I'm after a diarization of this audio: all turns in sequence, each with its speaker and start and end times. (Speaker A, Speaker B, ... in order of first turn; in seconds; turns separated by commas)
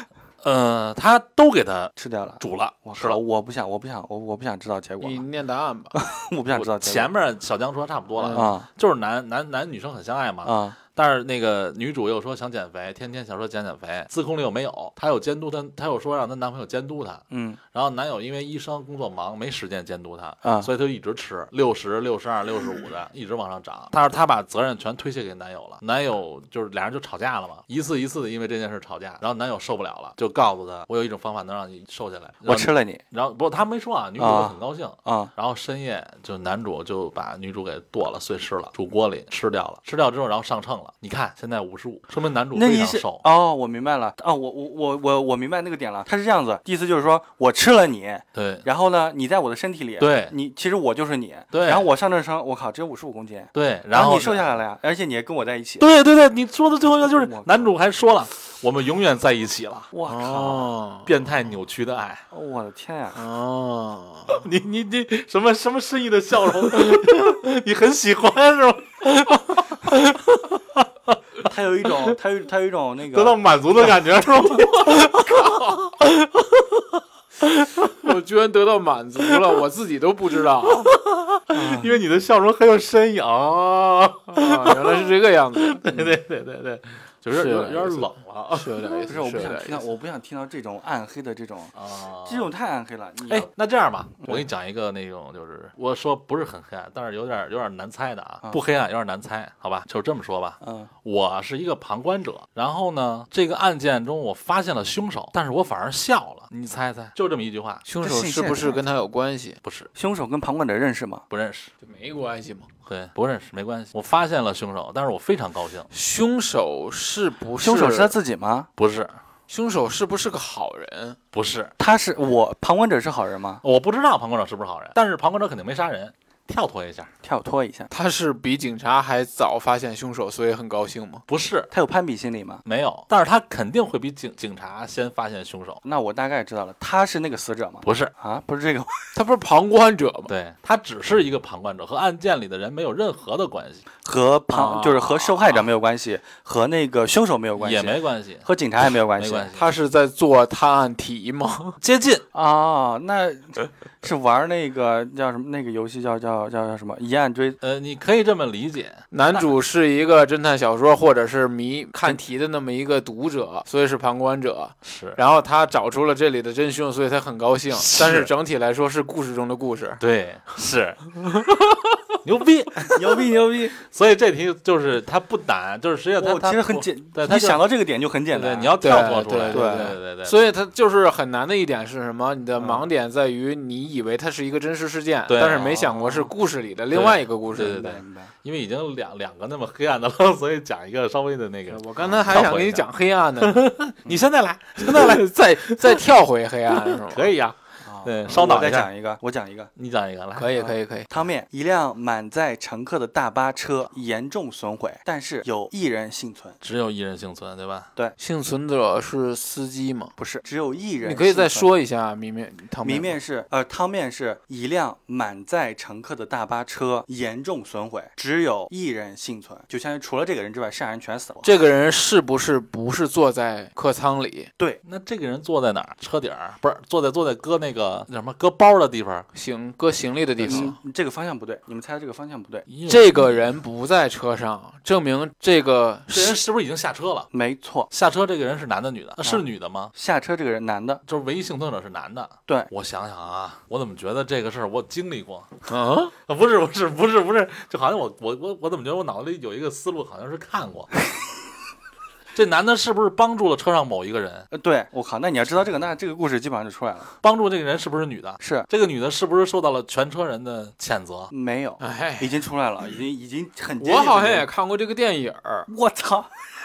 Speaker A: 0.4-3.2, Speaker B: 2.0-5.3, Speaker C: 5.0-6.0, Speaker B: 5.9-7.1, Speaker A: 6.5-43.2, Speaker C: 8.2-8.5, Speaker B: 8.3-8.7, Speaker B: 10.4-10.8, Speaker B: 17.3-17.6, Speaker B: 20.4-20.7, Speaker B: 32.5-33.0, Speaker B: 34.2-35.3, Speaker B: 42.5-55.9, Speaker A: 48.4-48.7, Speaker A: 50.0-50.3, Speaker A: 51.5-51.9, Speaker A: 53.5-54.5, Speaker A: 55.8-59.9, Speaker B: 57.1-57.7, Speaker B: 59.9-60.7, Speaker C: 60.1-61.1, Speaker A: 61.0-62.2, Speaker B: 62.3-63.2, Speaker C: 63.1-64.4, Speaker A: 64.3-71.2, Speaker B: 71.4-73.9, Speaker A: 73.1-76.8, Speaker A: 77.4-78.1, Speaker C: 78.0-80.9, Speaker A: 80.9-89.0, Speaker B: 81.5-81.9, Speaker C: 84.3-85.9, Speaker C: 87.3-89.8, Speaker B: 89.1-91.7, Speaker A: 91.8-92.5, Speaker B: 92.2-93.5, Speaker A: 93.3-107.8, Speaker B: 100.6-100.9, Speaker C: 107.8-109.6, Speaker B: 108.0-108.8, Speaker A: 109.6-109.9, Speaker B: 110.0-111.2, Speaker A: 111.3-111.7, Speaker C: 111.8-112.7, Speaker A: 112.9-115.9, Speaker C: 115.9-118.1, Speaker B: 117.6-118.7, Speaker A: 118.8-119.1, Speaker C: 119.5-121.2, Speaker A: 121.3-121.7, Speaker B: 121.8-123.6, Speaker A: 123.6-127.1, Speaker B: 127.2-127.9, Speaker C: 127.9-131.2, Speaker A: 131.3-131.7, Speaker B: 131.7-132.6, Speaker A: 132.7-135.8, Speaker B: 135.8-139.0, Speaker A: 137.8-138.1, Speaker C: 139.1-140.3, Speaker A: 140.3-143.9, Speaker B: 144.0-149.6, Speaker C: 144.5-145.3, Speaker A: 147.6-148.5, Speaker A: 149.2-149.7, Speaker C: 149.6-151.8, Speaker A: 151.8-152.2, Speaker B: 152.3-157.6, Speaker A: 157.6-159.0, Speaker C: 159.1-170.0, Speaker A: 164.8-165.2, Speaker A: 167.7-168.3, Speaker A: 170.0-171.4, Speaker A: 172.2-173.0, Speaker B: 172.8-173.8, Speaker A: 173.8-177.6, Speaker B: 176.2-179.9, Speaker A: 178.3-180.4, Speaker C: 178.8-187.8, Speaker B: 182.6-182.8, Speaker A: 185.3-185.9, Speaker B: 185.6-186.3, Speaker A: 186.9-192.9, Speaker B: 187.6-188.3, Speaker C: 191.7-193.7, Speaker A: 193.4-196.1, Speaker C: 194.8-197.3, Speaker A: 196.7-198.9, Speaker B: 197.8-199.7, Speaker A: 199.8-200.7, Speaker C: 200.4-201.1, Speaker B: 201.1-206.6, Speaker A: 206.6-207.9, Speaker C: 208.2-210.1, Speaker B: 210.2-211.7, Speaker C: 211.0-213.2, Speaker B: 212.8-221.5, Speaker C: 221.4-224.5, Speaker A: 224.8-229.3, Speaker C: 229.3-230.8, Speaker A: 230.4-230.7, Speaker B: 230.4-232.7, Speaker A: 232.7-233.5, Speaker C: 232.9-236.4, Speaker A: 236.1-237.3, Speaker B: 237.3-237.9, Speaker A: 237.9-239.9, Speaker B: 239.9-241.0, Speaker A: 241.1-245.5, Speaker C: 245.7-246.1, Speaker A: 246.3-250.9, Speaker A: 252.3-254.5, Speaker B: 254.5-257.1, Speaker A: 257.2-261.3, Speaker B: 258.4-258.7, Speaker B: 261.3-264.5, Speaker C: 261.8-262.4, Speaker C: 263.8-265.7, Speaker B: 265.7-266.3